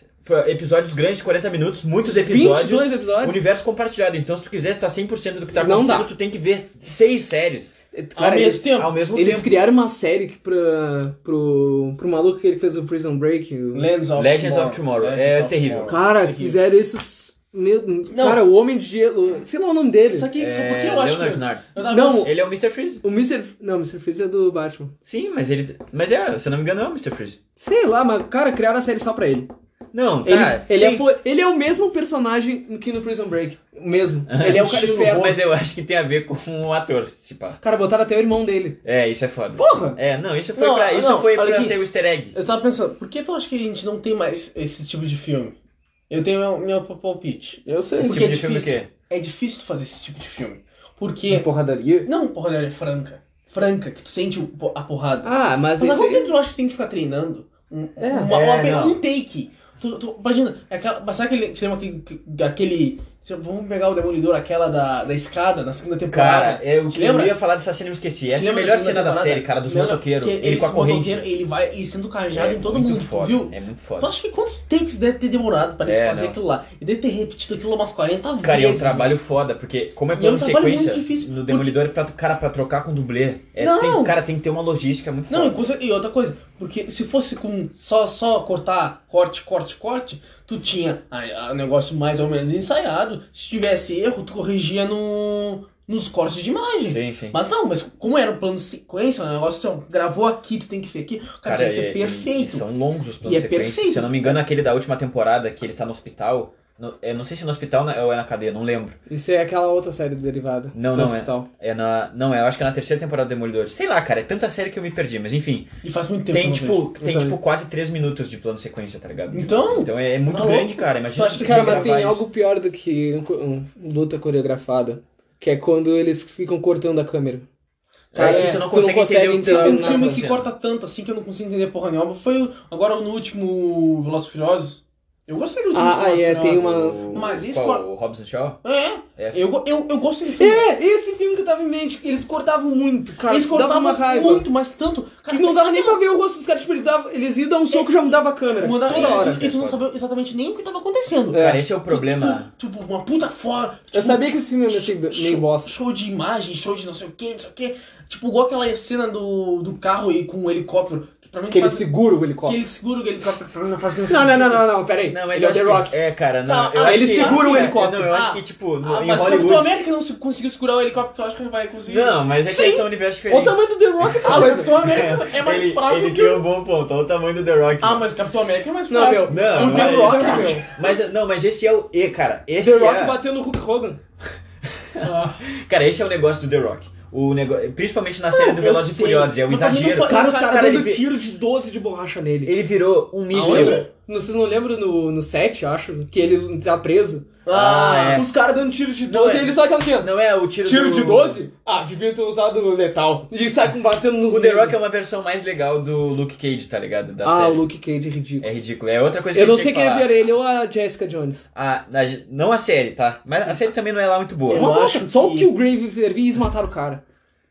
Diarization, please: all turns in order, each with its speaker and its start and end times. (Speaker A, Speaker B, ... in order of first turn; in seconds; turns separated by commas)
Speaker A: 0.2-7.7, Speaker B: 2.0-3.5, Speaker B: 5.6-6.1, Speaker B: 7.9-13.9, Speaker C: 8.2-8.9, Speaker A: 8.7-9.6, Speaker C: 13.7-16.6, Speaker A: 14.2-15.9, Speaker B: 15.9-20.3, Speaker C: 18.1-18.4, Speaker C: 20.1-22.3, Speaker A: 20.4-23.0, Speaker B: 21.8-22.3, Speaker B: 23.0-24.9, Speaker A: 25.1-27.4, Speaker B: 27.6-29.5, Speaker A: 29.9-31.1, Speaker B: 30.2-35.4, Speaker A: 34.3-37.6, Speaker C: 34.5-35.4, Speaker B: 37.6-38.8, Speaker A: 38.8-42.4, Speaker B: 39.6-40.0, Speaker C: 40.6-41.8, Speaker C: 42.3-45.5, Speaker C: 46.1-51.5, Speaker B: 47.7-48.5, Speaker A: 48.0-48.9, Speaker B: 51.3-52.1, Speaker C: 52.0-67.3, Speaker B: 55.2-56.3, Speaker B: 58.0-58.3, Speaker A: 58.3-59.0, Speaker A: 66.1-71.3, Speaker C: 68.3-79.1, Speaker A: 72.3-74.1, Speaker A: 75.8-76.4, Speaker A: 78.4-85.7, Speaker C: 80.1-81.8, Speaker C: 83.6-84.2, Speaker C: 85.3-102.7, Speaker A: 96.8-97.4, Speaker A: 101.5-109.0, Speaker C: 103.2-104.4, Speaker B: 109.1-111.5, Speaker A: 110.7-115.7, Speaker C: 115.8-116.9, Speaker A: 116.3-122.3, Speaker B: 117.0-117.4, Speaker C: 119.3-121.9, Speaker B: 121.4-127.5, Speaker A: 128.1-130.5, Speaker C: 128.2-128.7, Speaker B: 128.2-130.2, Speaker C: 129.4-137.8, Speaker B: 135.7-137.1, Speaker A: 136.5-138.6, Speaker C: 138.6-140.7, Speaker A: 139.2-139.4, Speaker B: 140.4-144.5, Speaker C: 143.3-146.0, Speaker B: 145.3-149.4, Speaker C: 148.6-164.7, Speaker A: 148.9-149.8, Speaker B: 151.3-151.6, Speaker A: 151.3-152.5, Speaker B: 153.9-155.7, Speaker B: 161.5-162.6, Speaker B: 164.1-165.9, Speaker A: 165.1-169.8, Speaker C: 166.5-172.8, Speaker B: 166.8-168.1, Speaker A: 171.9-178.1, Speaker B: 172.5-172.8, Speaker B: 173.3-174.8, Speaker C: 174.2-176.5, Speaker C: 177.8-180.9, Speaker B: 178.9-180.7, Speaker A: 179.3-183.2, Speaker B: 182.6-184.0, Speaker A: 184.6-190.3, Speaker C: 185.0-185.4, Speaker C: 188.3-191.0, Speaker B: 190.1-192.5, Speaker A: 192.4-193.9, Speaker C: 193.3-193.9, Speaker B: 193.4-197.3, Speaker C: 197.4-198.3, Speaker A: 197.5-198.3, Speaker B: 198.1-200.1, Speaker A: 199.1-201.4, Speaker B: 200.6-204.8, Speaker A: 204.3-207.7, Speaker B: 207.2-208.5, Speaker A: 208.4-210.1, Speaker B: 209.3-211.5, Speaker A: 211.5-214.7, Speaker C: 214.5-215.5, Speaker B: 214.5-217.0